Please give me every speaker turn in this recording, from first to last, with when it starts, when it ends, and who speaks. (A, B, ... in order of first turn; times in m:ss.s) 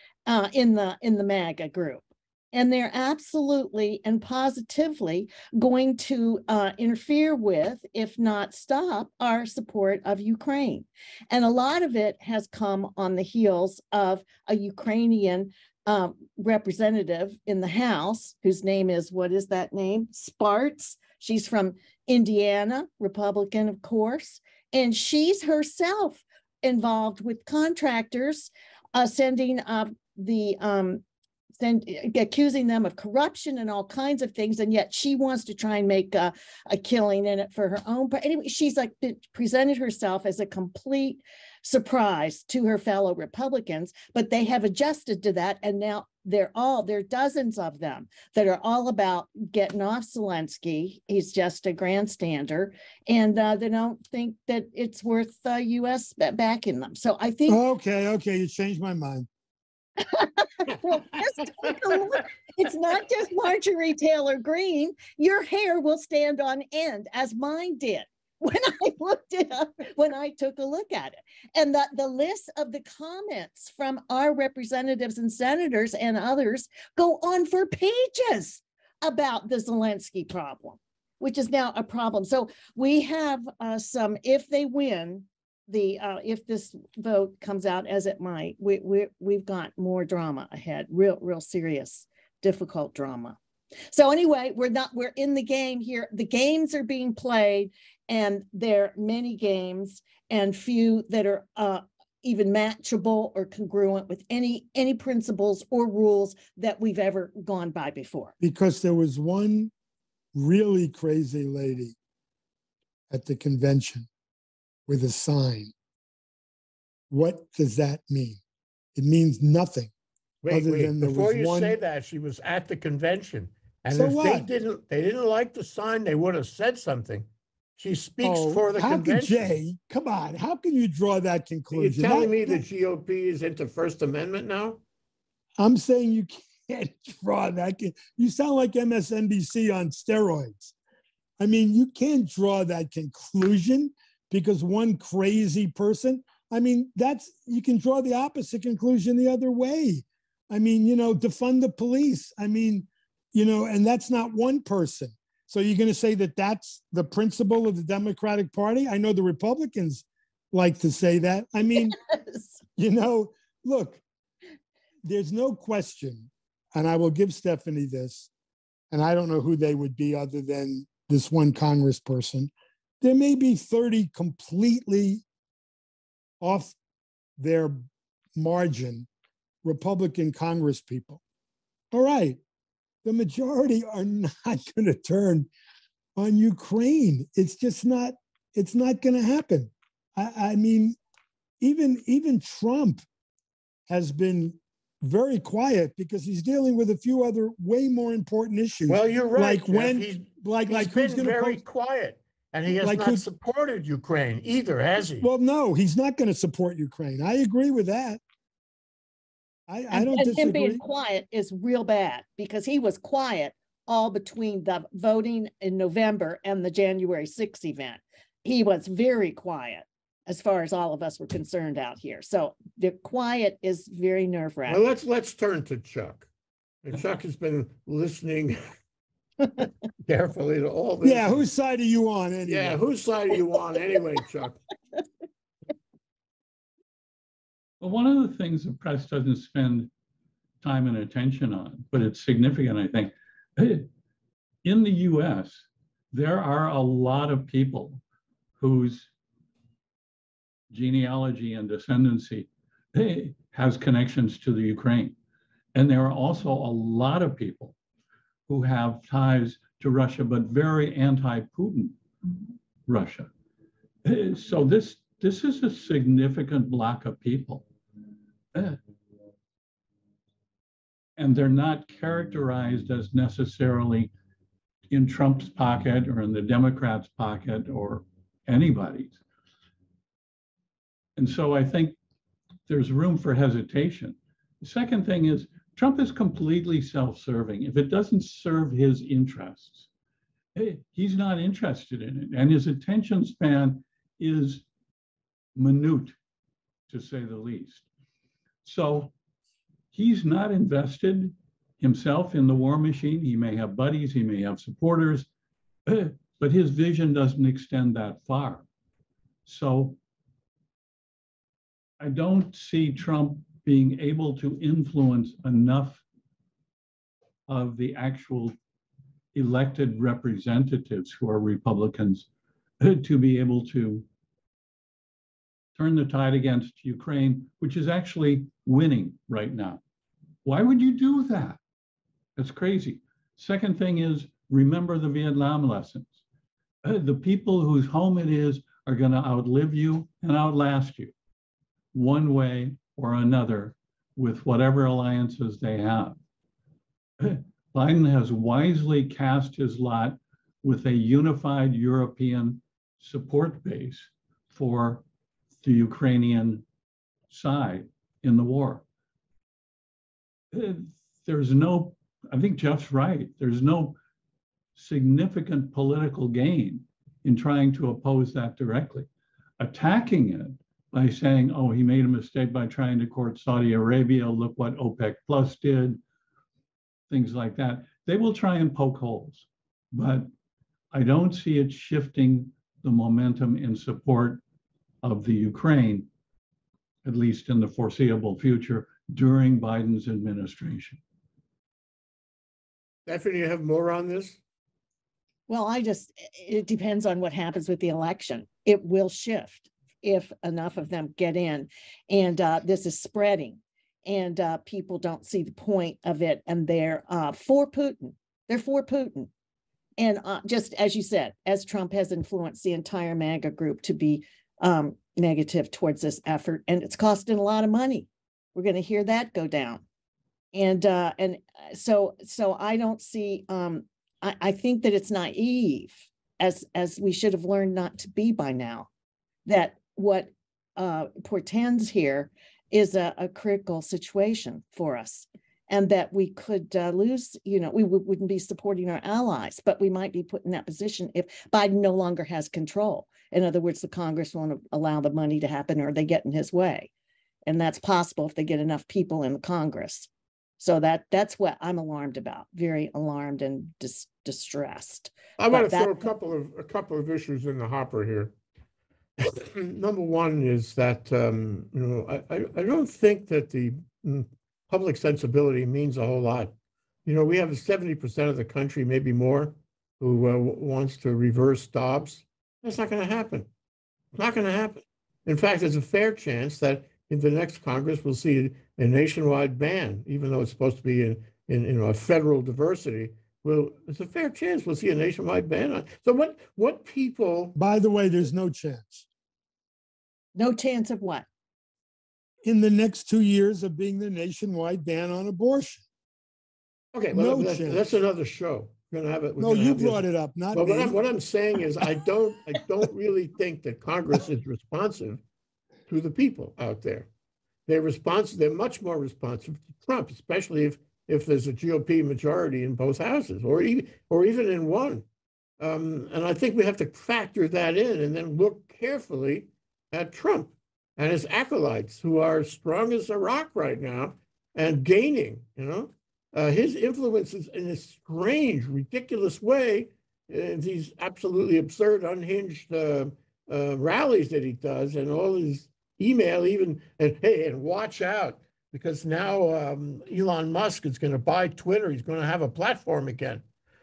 0:00.2-0:31.0 A
0:31.6-0:57.6 A
0:57.5-0:59.3 B
1:00.0-1:33.4 A
1:33.9-1:48.3 A
1:48.4-1:49.7 B
1:50.3-1:51.9 B
1:53.1-1:54.1 B
1:54.9-1:55.7 B
1:57.1-1:58.4 B
1:58.9-1:59.9 B
2:00.4-2:09.5 C
2:00.5-2:01.8 B
2:03.9-2:04.5 B
2:08.2-2:12.6 B
2:11.7-2:14.8 C
2:15.6-2:20.7 B
2:21.4-2:42.0 B
2:41.9-2:42.6 A
2:42.8-2:44.0 B
2:45.0-2:48.3 B
2:48.9-2:55.2 B
2:56.4-2:56.8 B
2:57.4-2:59.1 B
2:59.6-3:01.2 B
3:01.9-3:02.4 B
3:03.0-3:05.5 B
3:06.2-3:11.0 B
3:11.6-3:13.0 B
3:13.9-3:21.6 B
3:18.9-3:25.3 C
3:22.7-3:23.2 B
3:25.2-3:28.2 B
3:29.7-3:30.8 B
3:29.9-3:44.8 A
3:44.6-3:46.3 C
3:46.8-3:48.6 C
3:50.0-3:51.4 C
3:51.0-3:52.8 B
3:52.5-3:54.6 C
3:57.8-3:59.9 D
4:00.6-4:03.9 D
4:04.6-4:08.0 D
4:08.6-4:09.1 D
4:10.7-4:15.2 D
4:15.7-4:17.7 D
4:18.5-4:22.0 D
4:22.9-4:23.3 D
4:24.0-4:27.6 D
4:28.5-4:28.8 D
4:31.2-4:34.1 D
4:34.9-4:39.2 D
4:41.2-4:42.0 D
4:42.7-4:49.9 D
4:50.5-4:54.6 D
4:55.6-4:56.1 D
4:56.9-4:57.8 D
4:58.6-4:59.1 D
4:59.9-5:05.3 D
5:05.8-5:08.6 D
5:09.4-5:10.0 D
5:12.0-5:16.0 D
5:17.5-5:18.5 D
5:19.3-5:22.3 D
5:22.8-5:24.0 D
5:25.8-5:29.8 D
5:30.4-5:31.6 D
5:32.4-5:36.2 D
5:36.8-5:41.1 D
5:41.9-5:46.2 D
5:47.2-5:55.0 D
5:55.6-5:56.6 D
5:57.3-5:58.8 D
6:00.5-6:04.0 D
6:04.7-6:09.1 D
6:09.6-6:16.0 D
6:17.1-6:20.3 D
6:20.9-6:24.4 D
6:25.0-6:26.1 D
6:27.0-6:31.0 D
6:33.0-6:34.4 C
6:35.5-6:49.3 A
6:50.0-6:59.8 A
7:00.5-7:08.9 A
7:09.4-7:26.9 A
7:27.4-7:36.0 A
7:35.4-7:38.3 C
7:39.2-7:46.5 C
7:47.0-7:53.5 C
7:54.1-8:07.5 C
8:07.5-8:09.0 B
8:10.4-8:11.2 A
8:12.4-8:15.8 B
8:16.9-8:20.0 C
8:17.1-8:17.8 B
8:19.4-8:21.0 B
8:20.5-8:25.2 C
8:25.9-8:27.1 C
8:27.7-8:35.0 C
8:35.6-9:03.4 C